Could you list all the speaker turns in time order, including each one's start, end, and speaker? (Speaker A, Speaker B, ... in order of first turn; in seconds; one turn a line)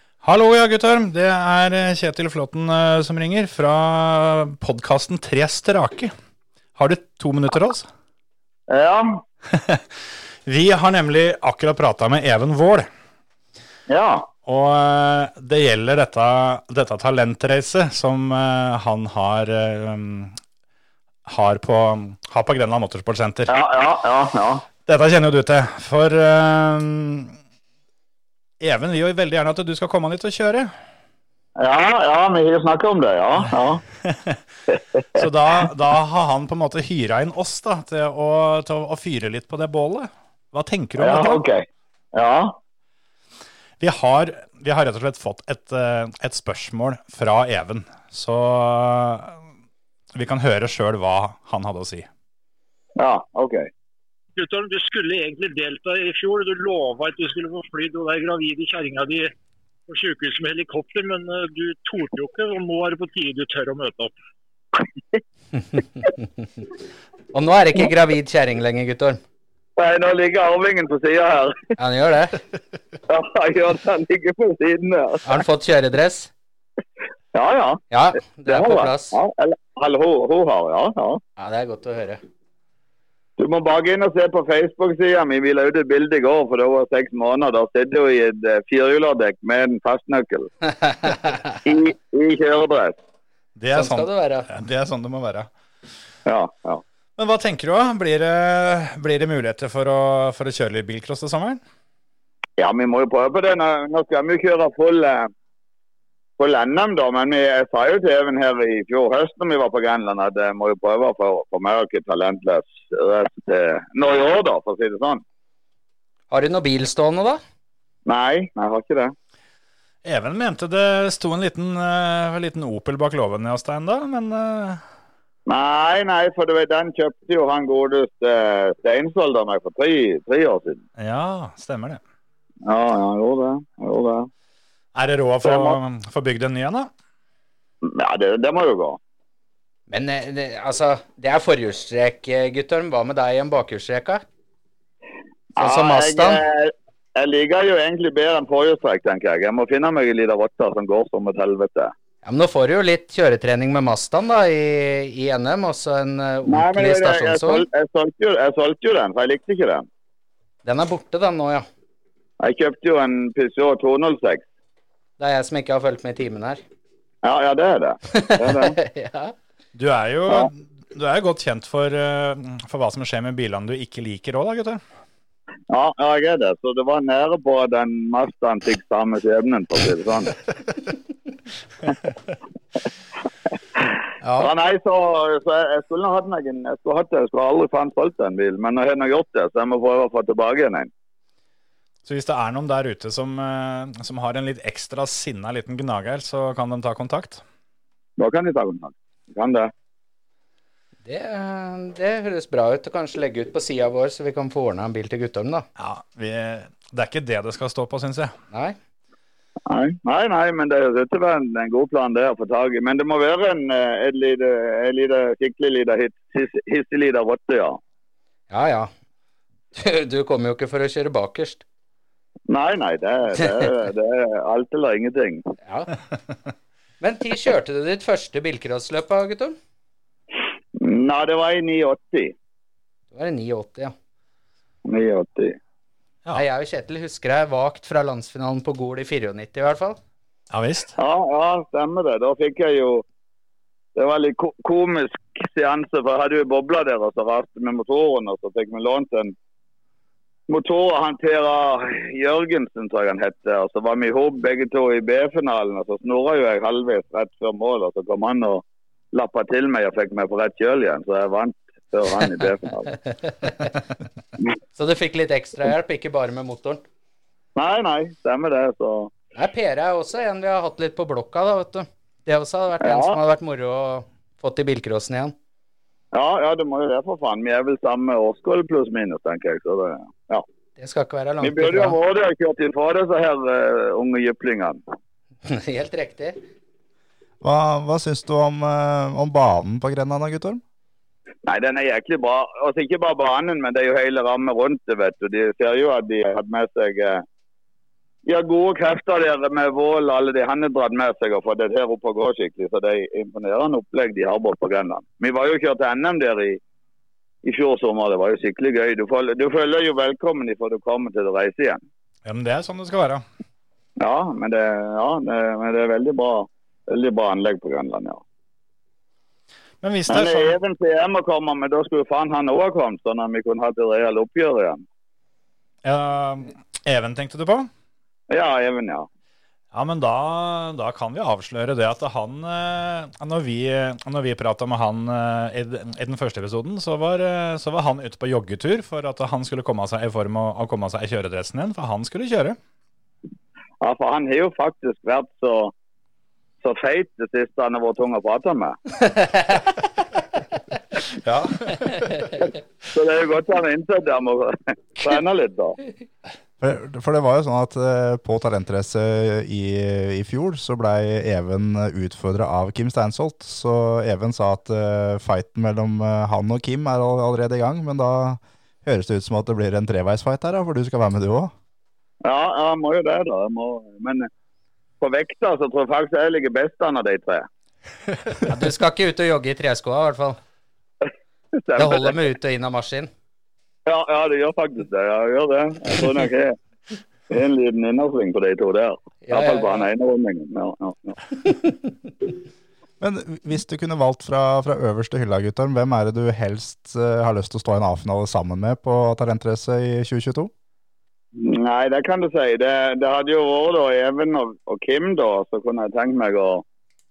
Speaker A: 0.2-6.1
Speaker A: 6.8-7.9
Speaker B: 8.7-9.2
Speaker A: 9.5-9.8
Speaker A: 10.5-12.9
Speaker B: 13.9-14.3
Speaker A: 14.5-20.3
Speaker A: 21.3-23.6
Speaker B: 23.5-24.7
Speaker A: 24.9-27.4
Speaker A: 28.6-30.7
Speaker B: 31.6-33.8
Speaker A: 34.0-34.4
Speaker B: 34.7-35.0
Speaker A: 35.1-41.4
Speaker B: 41.0-42.6
Speaker A: 43.8-49.4
Speaker A: 50.1-52.1
Speaker B: 53.0-53.7
Speaker C: 54.4-59.3
Speaker C: 59.9-64.1
Speaker D: 67.3-69.2
Speaker B: 69.8-71.6
Speaker D: 71.8-72.4
Speaker B: 73.1-75.3
Speaker D: 75.2-76.3
Speaker B: 77.3-77.8
Speaker D: 77.9-79.2
Speaker B: 78.5-81.2
Speaker D: 81.4-82.2
Speaker B: 83.4-93.0
Speaker A: 93.6-95.5
Speaker D: 93.7-94.5
Speaker B: 96.3-96.8
Speaker A: 97.2-101.6
Speaker B: 102.6-105.3
Speaker B: 106.4-115.2
Speaker D: 116.3-117.4
Speaker B: 118.1-119.1
Speaker A: 120.0-124.8
Speaker B: 125.5-130.8
Speaker A: 131.0-132.0
Speaker B: 132.7-134.3
Speaker A: 134.9-136.9
Speaker B: 135.4-135.8
Speaker B: 137.8-139.0
Speaker D: 139.9-144.2
Speaker D: 145.6-146.4
Speaker B: 145.6-151.9
Speaker D: 152.2-157.7
Speaker B: 156.5-159.9
Speaker D: 160.7-161.7
Speaker B: 162.4-164.4
Speaker D: 165.2-166.6
Speaker B: 167.2-168.8
Speaker D: 168.1-169.3
Speaker A: 169.7-174.8
Speaker B: 175.7-180.4
Speaker B: 183.8-190.9
Speaker D: 184.2-184.5
Speaker A: 192.1-197.4
Speaker B: 198.2-199.7
Speaker D: 201.0-205.7
Speaker A: 205.8-208.3
Speaker D: 208.5-208.8
Speaker B: 209.7-217.8
Speaker D: 218.5-218.9
Speaker D: 219.7-221.6
Speaker B: 222.5-225.4
Speaker D: 225.7-226.0
Speaker D: 227.0-229.6
Speaker B: 230.8-232.3
Speaker D: 233.1-233.9
Speaker B: 234.9-235.6
Speaker D: 236.3-240.0
Speaker A: 240.5-240.9
Speaker B: 241.0-243.0
Speaker B: 244.0-249.3
Speaker B: 250.5-262.9
Speaker D: 263.3-263.7
Speaker D: 264.7-266.8
Speaker B: 267.6-269.1
Speaker D: 269.4-275.3
Speaker B: 272.8-273.2
Speaker B: 276.1-280.4
Speaker D: 280.8-282.0
Speaker B: 281.4-284.8
Speaker D: 285.4-286.4
Speaker E: 287.4-290.6
Speaker B: 291.4-297.2
Speaker B: 298.2-306.6
Speaker B: 307.4-311.8
Speaker A: 312.2-313.2
Speaker B: 314.0-318.2
Speaker A: 319.8-320.6
Speaker B: 320.1-324.8
Speaker A: 325.8-327.7
Speaker B: 328.3-329.1
Speaker A: 329.7-342.6
Speaker B: 343.8-345.7
Speaker B: 346.6-348.8
Speaker A: 351.2-352.2
Speaker B: 352.9-355.8
Speaker E: 356.6-371.5
Speaker B: 372.2-374.3
Speaker B: 375.0-377.5
Speaker D: 378.5-380.4
Speaker B: 381.6-382.2
Speaker D: 381.8-383.1
Speaker B: 383.9-386.6
Speaker B: 387.3-391.2
Speaker D: 389.2-389.9
Speaker E: 393.0-400.5
Speaker B: 401.4-406.6